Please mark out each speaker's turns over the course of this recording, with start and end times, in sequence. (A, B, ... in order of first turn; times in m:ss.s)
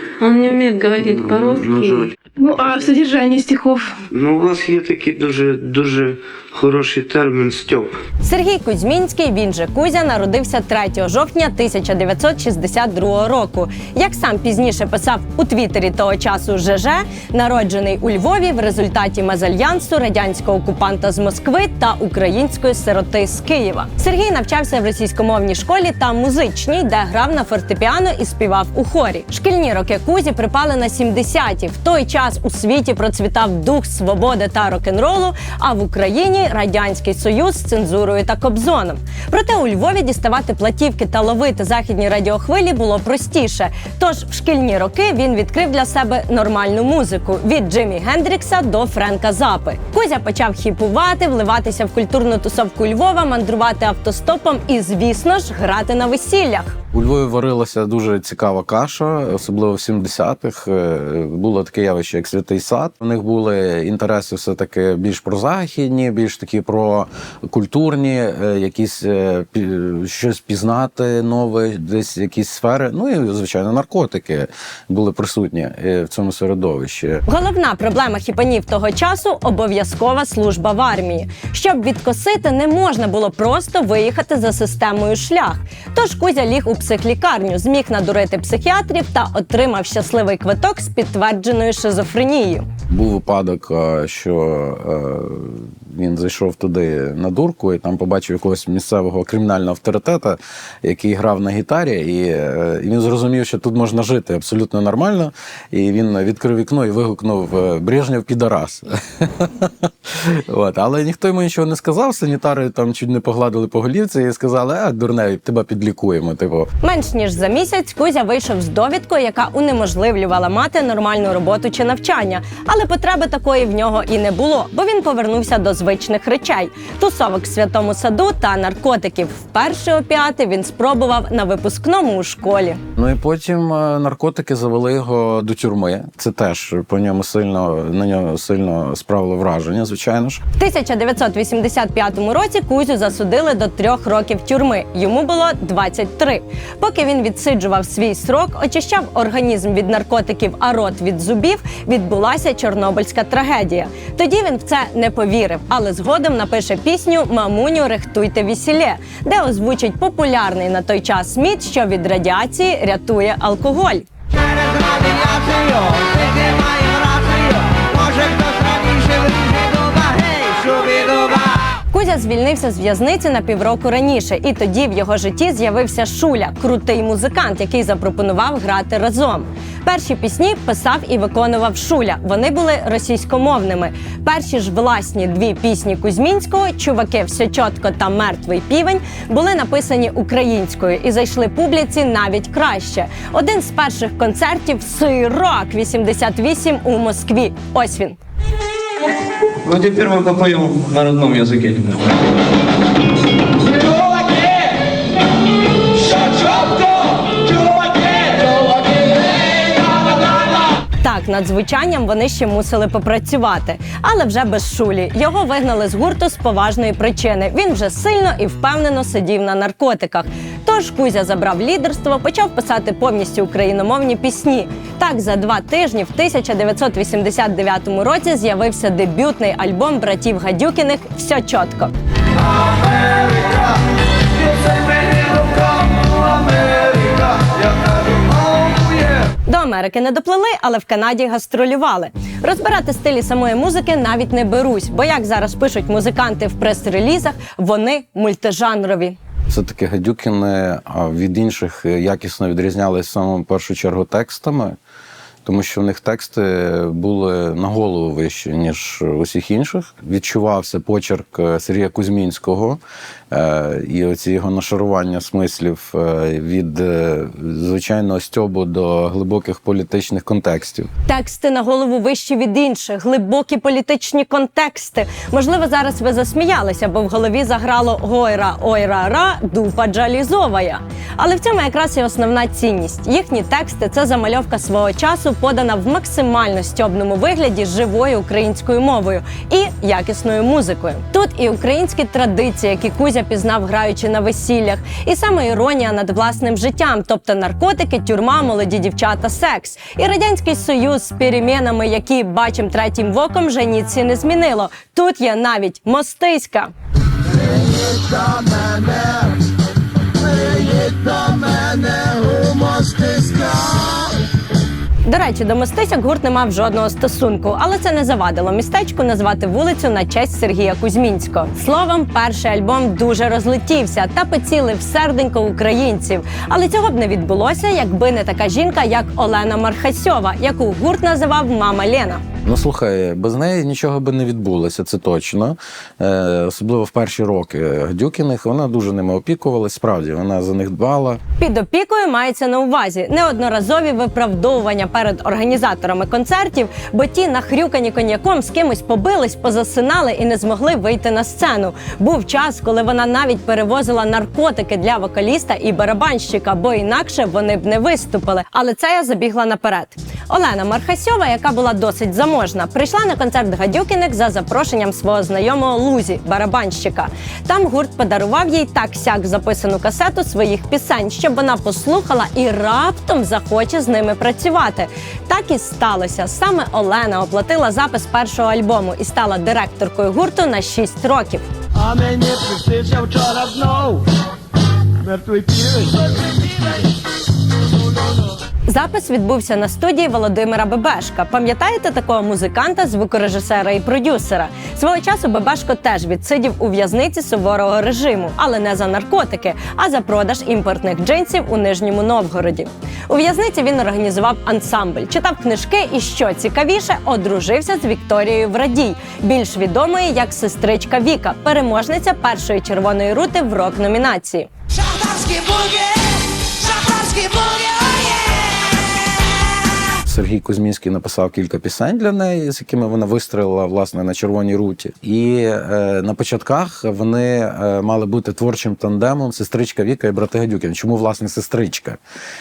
0:00.2-0:04.0 A
0:01.0-0:02.1 B
0:04.1-0:07.9 B
0:08.2-0:56.8 C
0:56.9-1:17.2 D
1:17.3-1:32.7 C
1:32.9-1:56.7 D
1:56.8-2:12.8 C
2:13.0-2:20.4 D
2:20.6-2:44.0 C
2:44.4-2:51.6 E
2:51.9-3:18.2 C
3:19.6-3:22.1 F
3:31.0-3:51.9 C
3:52.4-3:53.8 G
3:54.4-3:59.3 G
3:59.5-4:09.2 C
4:09.5-4:14.8 D
4:15.4-4:22.8 D
4:23.3-4:30.9 D
4:31.1-5:06.7 C
5:07.5-5:09.2 G
5:10.3-5:13.9 G
5:15.0-5:32.2 C
5:32.4-5:41.2 D
5:41.4-6:21.4 C
6:21.7-6:24.0 G
6:25.0-6:26.8 G
6:27.8-6:28.1 G
6:28.7-6:54.5 C
6:54.9-6:55.8 E
6:56.8-6:57.8 E
7:00.0-7:12.0 D